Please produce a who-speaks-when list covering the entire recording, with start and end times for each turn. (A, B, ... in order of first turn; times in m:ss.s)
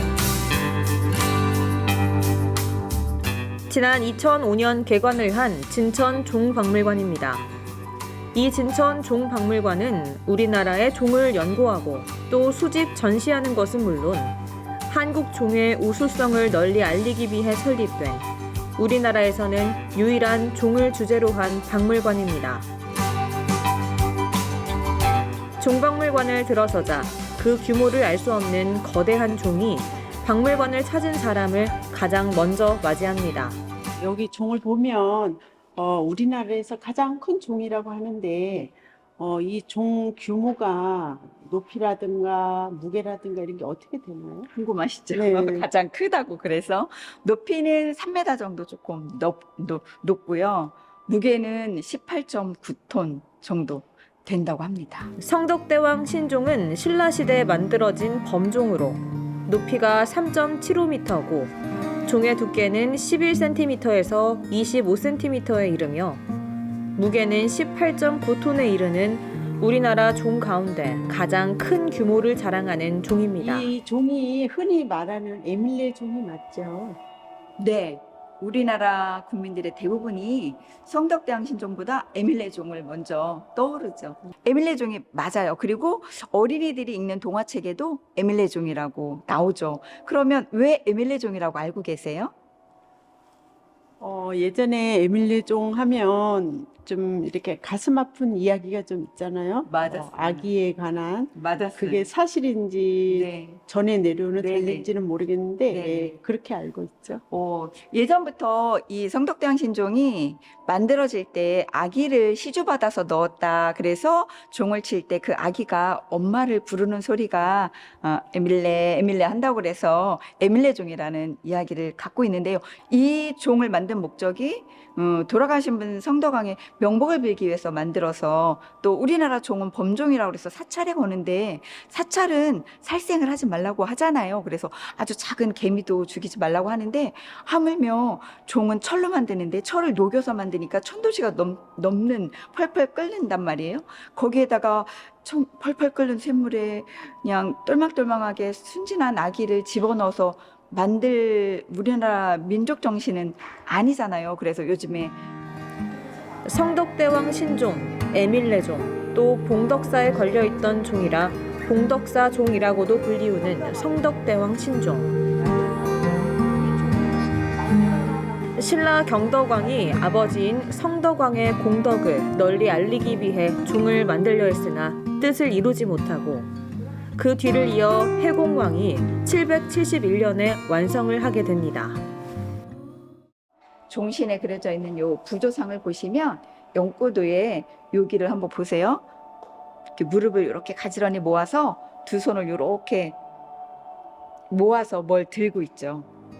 0:03.7-0:07.4 A
0:08.3-0:14.3 A
0:14.9-0:22.6 A
0:25.6-0:33.6 A
0:34.0-0:44.5 B
0:44.5-0:55.1 C
0:45.1-0:45.7 B
0:55.2-1:06.2 A
1:06.9-1:13.7 A
1:13.4-1:17.0 B
1:17.6-1:32.3 C
1:34.0-1:47.2 B
1:39.6-1:40.5 C
1:41.3-1:42.1 C
1:43.1-1:43.6 C
1:44.4-1:44.9 C
1:45.7-1:46.2 C
1:47.3-2:35.2 C
2:36.4-2:45.1 A
2:48.5-2:56.5 A
2:57.1-3:02.0 A
3:03.9-3:09.0 C
3:10.0-3:13.2 C
3:14.5-3:16.1 C